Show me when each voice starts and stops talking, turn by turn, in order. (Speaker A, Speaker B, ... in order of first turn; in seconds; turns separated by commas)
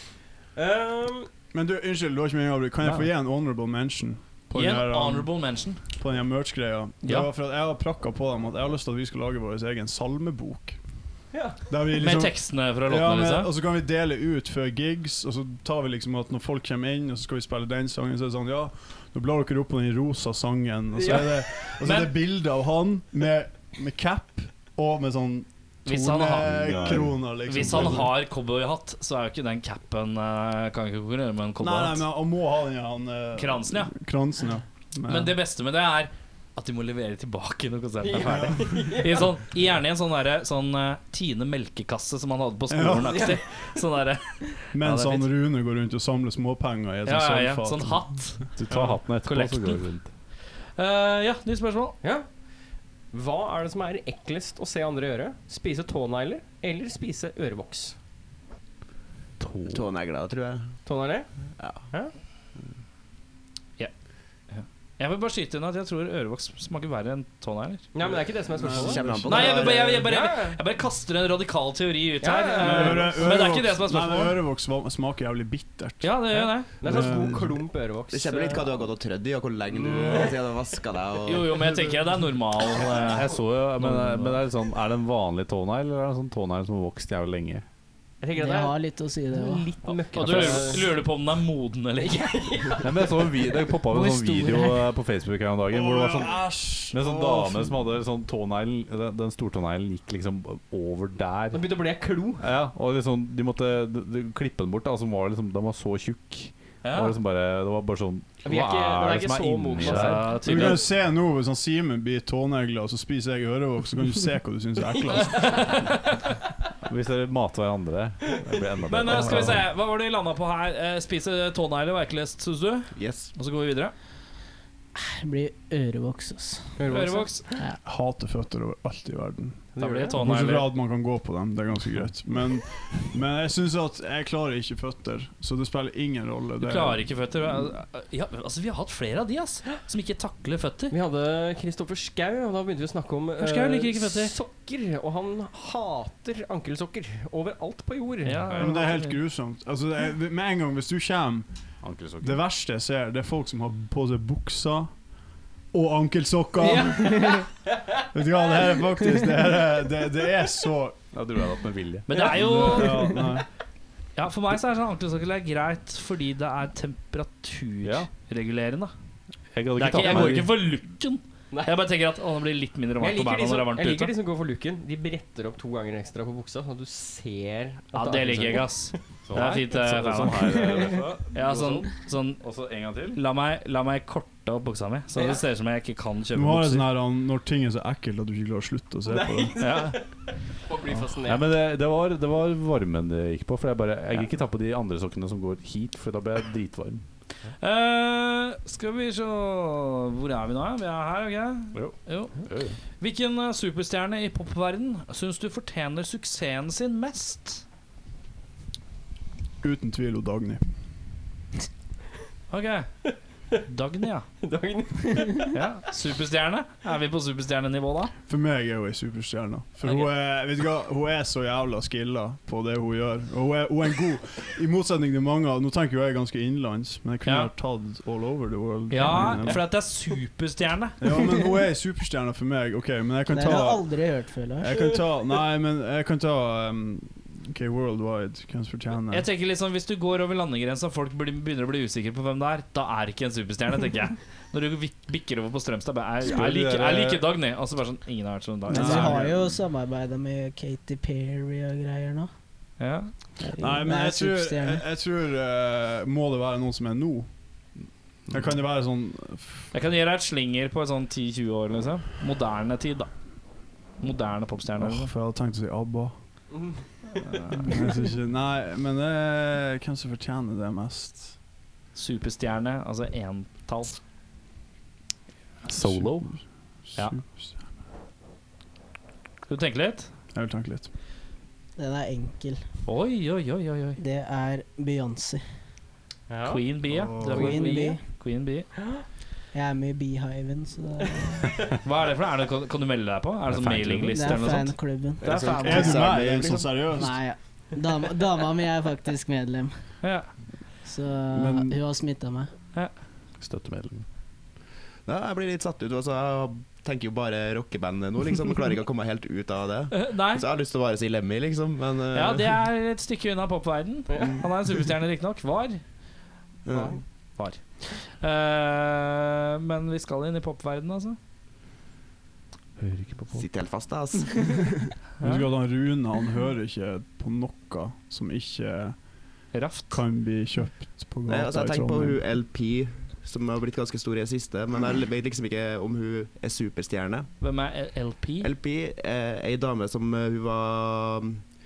Speaker A: 0.6-1.3, Speaker B: 1.5-10.8, Speaker C: 4.5-5.8, Speaker C: 7.0-7.3, Speaker A: 11.3-11.6, Speaker B: 11.7-28.2, Speaker C: 12.0-13.5, Speaker A: 21.0-21.4, Speaker C: 21.8-22.1, Speaker C: 25.9-32.1, Speaker D: 26.4-28.0, Speaker B: 31.6-35.4, Speaker C: 33.4-33.9, Speaker C: 35.1-45.3, Speaker A: 38.0-39.3, Speaker B: 38.2-38.8, Speaker B: 42.7-43.3, Speaker A: 43.1-43.4, Speaker B: 44.7-48.2, Speaker C: 47.0-49.9, Speaker D: 48.6-50.1, Speaker C: 50.8-52.0, Speaker A: 52.0-52.4, Speaker A: 53.1-58.0, Speaker D: 59.4-59.9, Speaker E: 59.7-60.8, Speaker A: 60.9-62.1, Speaker E: 61.6-61.9, Speaker C: 64.5-67.9, Speaker A: 67.9-70.6, Speaker B: 68.5-69.5, Speaker E: 68.7-70.0, Speaker C: 69.3-74.4, Speaker A: 72.2-73.2, Speaker B: 72.6-77.6, Speaker C: 76.0-76.7, Speaker A: 76.8-78.9, Speaker E: 78.1-81.8, Speaker C: 81.3-84.4, Speaker D: 83.1-87.7, Speaker A: 88.2-88.8, Speaker F: 88.3-89.8, Speaker A: 89.3-91.1, Speaker C: 89.9-92.5, Speaker D: 90.2-90.8, Speaker A: 92.0-93.2, Speaker D: 92.8-101.7, Speaker F: 93.8-94.9, Speaker B: 95.7-97.8, Speaker A: 101.5-102.5, Speaker D: 102.4-110.4, Speaker C: 106.8-107.2, Speaker A: 108.4-110.8, Speaker C: 109.8-110.8, Speaker B: 110.4-115.9, Speaker A: 115.0-115.7, Speaker C: 115.3-116.2, Speaker D: 116.8-119.7, Speaker C: 118.9-123.9, Speaker B: 119.2-119.5, Speaker E: 122.9-123.3, Speaker F: 125.0-126.8, Speaker A: 126.8-127.6, Speaker C: 126.9-127.4, Speaker B: 127.8-137.1, Speaker A: 129.7-130.2, Speaker C: 129.8-130.7, Speaker C: 136.6-140.9, Speaker A: 140.9-148.6, Speaker C: 143.4-144.3, Speaker C: 148.3-149.2, Speaker B: 148.5-151.7, Speaker D: 151.8-152.4, Speaker B: 152.2-155.0, Speaker B: 155.7-157.2, Speaker C: 156.6-157.3, Speaker F: 157.0-157.4, Speaker B: 158.1-161.0, Speaker D: 161.1-162.1, Speaker C: 162.1-163.2, Speaker A: 162.1-162.8, Speaker B: 162.3-163.5, Speaker C: 164.2-168.9, Speaker D: 167.8-168.1, Speaker D: 169.5-170.6, Speaker C: 169.8-174.1, Speaker A: 171.5-171.8, Speaker A: 173.0-179.0, Speaker C: 177.9-180.7, Speaker D: 179.3-181.4, Speaker C: 181.3-182.4, Speaker A: 181.4-181.8, Speaker D: 182.4-183.2, Speaker C: 183.1-186.9, Speaker A: 185.2-185.4, Speaker B: 186.3-189.6, Speaker A: 189.1-191.5, Speaker C: 189.6-190.0, Speaker D: 191.2-197.0, Speaker C: 197.6-202.4, Speaker D: 201.7-202.8, Speaker C: 203.0-207.6, Speaker B: 209.6-210.7, Speaker C: 212.5-214.3, Speaker A: 214.4-215.5, Speaker C: 215.5-218.1, Speaker B: 218.3-229.9, Speaker C: 219.8-220.1, Speaker C: 227.2-227.5, Speaker C: 228.9-231.0, Speaker B: 231.0-233.9, Speaker F: 231.3-231.5, Speaker F: 233.3-234.8, Speaker B: 234.6-239.3, Speaker C: 239.1-249.2, Speaker B: 246.3-247.0, Speaker D: 246.3-247.2, Speaker B: 248.7-249.6, Speaker F: 248.7-252.3, Speaker C: 252.8-253.1, Speaker F: 253.4-254.8, Speaker B: 253.6-257.3, Speaker B: 258.3-259.7, Speaker C: 259.7-263.1, Speaker C: 264.0-265.1, Speaker B: 264.8-266.2, Speaker A: 266.5-266.8, Speaker C: 267.2-267.6, Speaker B: 267.3-271.4, Speaker C: 271.9-274.0, Speaker D: 275.7-276.4, Speaker B: 275.7-277.7, Speaker C: 279.5-280.1, Speaker B: 280.3-280.9, Speaker F: 281.8-282.6, Speaker C: 282.9-284.0, Speaker F: 284.0-285.4, Speaker A: 286.3-286.7, Speaker C: 286.4-288.7, Speaker B: 286.9-287.5, Speaker A: 287.3-287.7, Speaker F: 287.3-288.0, Speaker F: 289.5-291.5, Speaker C: 291.8-296.1, Speaker D: 293.5-294.4, Speaker F: 294.1-295.2, Speaker E: 295.2-296.9, Speaker B: 295.6-297.2, Speaker F: 296.9-299.8, Speaker C: 300.0-300.3, Speaker F: 300.8-302.5, Speaker B: 301.3-301.8, Speaker D: 303.4-304.1, Speaker E: 305.1-312.6, Speaker C: 309.9-310.5, Speaker C: 312.1-315.8, Speaker A: 314.1-314.4, Speaker E: 316.6-317.0, Speaker A: 316.7-317.0, Speaker C: 317.4-321.2, Speaker D: 322.8-323.5, Speaker E: 323.3-324.9, Speaker B: 325.2-332.2, Speaker C: 329.5-330.0, Speaker E: 331.3-337.3, Speaker C: 337.4-338.5, Speaker E: 338.4-341.4